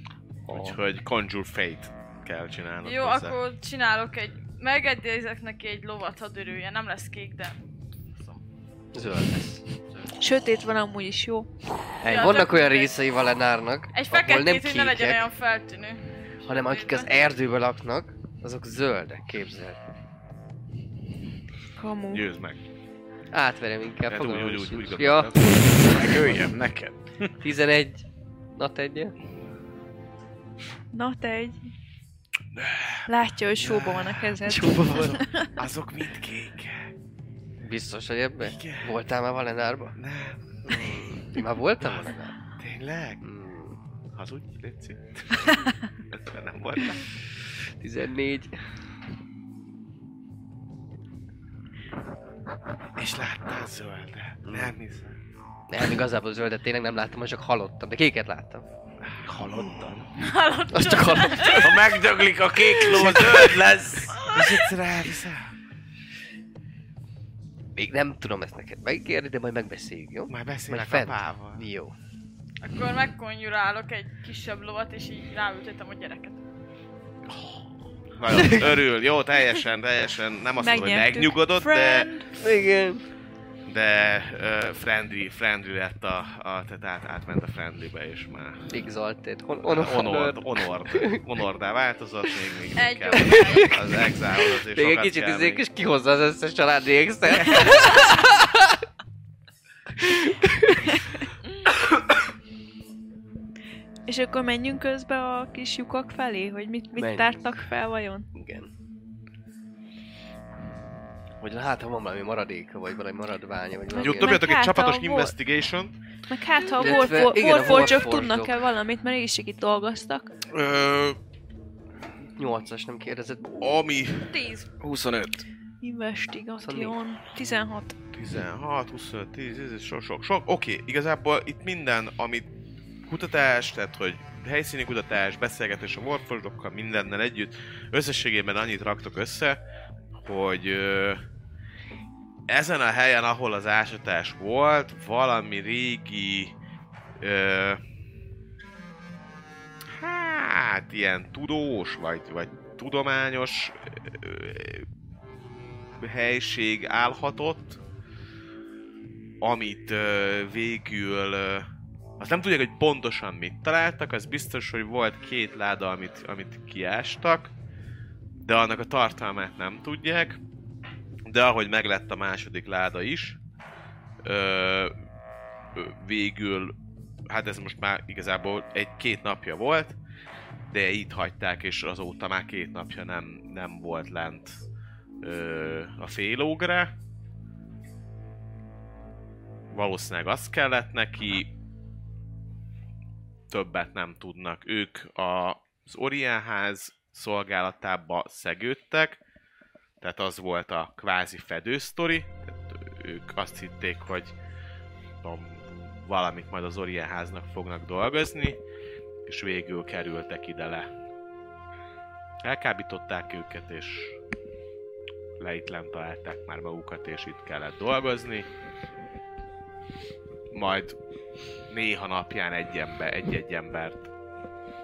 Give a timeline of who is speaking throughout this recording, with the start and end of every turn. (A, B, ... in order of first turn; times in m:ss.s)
0:00.5-0:00.8 A
0:00.5-0:03.4 B
0:02.8-0:07.6 C
0:08.9-0:09.6 D
0:10.2-0:11.5 E
0:12.0-0:12.4 A
0:12.0-0:13.0 C
0:12.1-0:15.2 D
0:13.9-0:17.1 C
0:16.4-0:19.8 D
0:21.8-0:22.2 E
0:22.1-0:22.6 B
0:23.3-0:26.4 D
0:24.1-0:25.8 B
0:25.8-0:27.3 A
0:27.4-0:28.0 D
0:28.6-0:29.1 D
0:30.9-0:31.6 E
0:32.5-0:36.9 B
0:33.1-0:35.5 E
0:34.4-0:35.2 D
0:37.6-0:40.0 D
0:38.4-0:39.0 B
0:40.0-0:41.0 B
0:40.6-0:42.3 D
0:41.8-0:43.2 B
0:43.2-0:43.8 D
0:44.1-0:47.0 B
0:47.8-0:48.6 D
0:53.0-0:55.2 B
0:54.4-0:54.7 D
0:55.7-0:58.6 D
0:59.0-1:00.1 B
0:59.3-0:59.8 A
1:00.2-1:01.8 C
1:00.7-1:01.9 D
1:01.5-1:04.3 A
1:03.0-1:03.4 B
1:04.1-1:04.7 C
1:04.2-1:05.5 B
1:07.8-1:11.9 D
1:10.3-1:11.6 B
1:12.6-1:16.4 C
1:17.3-1:22.1 B
1:20.6-1:22.3 E
1:22.3-1:23.0 D
1:23.7-1:28.7 B
1:28.7-1:31.2 D
1:29.6-1:35.6 B
1:32.7-1:33.8 C
1:33.2-1:38.8 D
1:40.0-1:41.0 D
1:44.1-1:48.3 E
1:47.0-1:47.6 D
1:48.3-1:48.7 D
1:51.4-1:54.4 D
1:53.9-1:55.4 E
1:54.0-1:55.9 B
1:56.3-2:00.3 E
1:56.8-1:58.6 D
2:00.5-2:01.2 B
2:02.4-2:03.8 D
2:03.6-2:04.4 B
2:04.3-2:04.7 C
2:04.8-2:05.4 A
2:05.8-2:07.9 E
2:06.6-2:07.0 D
2:08.1-2:12.5 B
2:13.0-2:19.6 B
2:20.2-2:21.2 B
2:22.5-2:26.5 B
2:27.2-2:27.8 B
2:29.9-2:34.9 B
2:36.0-2:37.8 B
2:39.4-2:47.5 B
2:48.4-2:50.4 B
2:51.3-2:53.4 B
2:54.2-2:54.9 B
2:55.7-2:56.7 B
2:57.3-3:00.0 B
3:00.7-3:04.6 B
3:05.2-3:06.9 B
3:09.7-3:11.5 B
3:13.5-3:19.2 B
3:20.0-3:24.3 B
3:25.2-3:28.6 B
3:29.2-3:30.9 B
3:32.4-3:34.2 B
3:35.4-3:38.5 B
3:40.5-3:41.0 B
3:41.7-3:44.1 B